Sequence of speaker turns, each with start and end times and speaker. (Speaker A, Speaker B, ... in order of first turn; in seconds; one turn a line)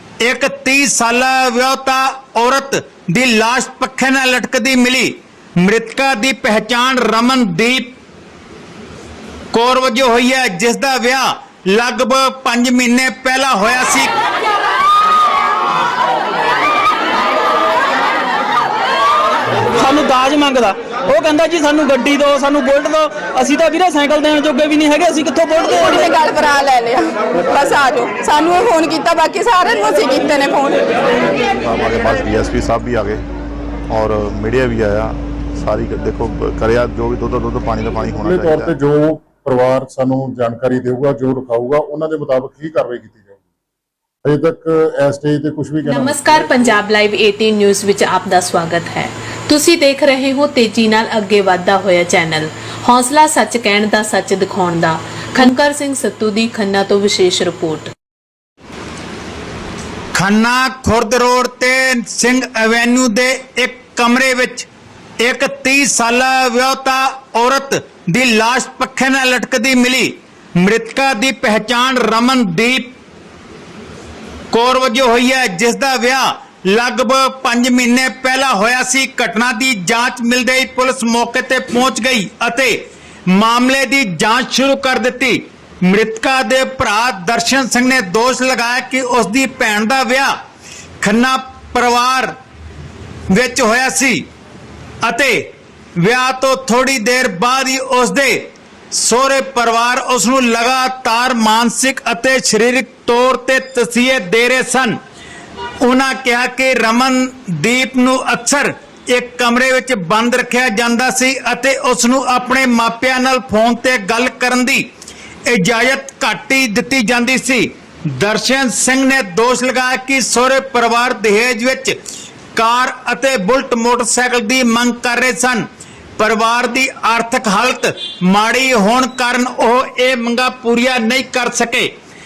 Speaker A: 0.2-7.9
Speaker A: 9.5-14.1
Speaker B: 19.8-26.1
Speaker C: 25.6-30.9
Speaker D: 31.5-33.2
Speaker D: 33.9-38.7
Speaker E: 38.1-43.4
Speaker E: 44.2-46.8
Speaker F: 45.8-57.9
Speaker A: 60.1-64.7
Speaker A: 65.2-72.9
Speaker A: 74.5-90.3
Speaker A: 91.0-92.3
Speaker A: 93.3-94.2
Speaker A: 95.0-95.5
Speaker A: 96.0-105.0
Speaker A: 105.8-114.8
Speaker A: 115.5-122.0
Speaker A: 122.5-125.6
Speaker A: 126.2-131.9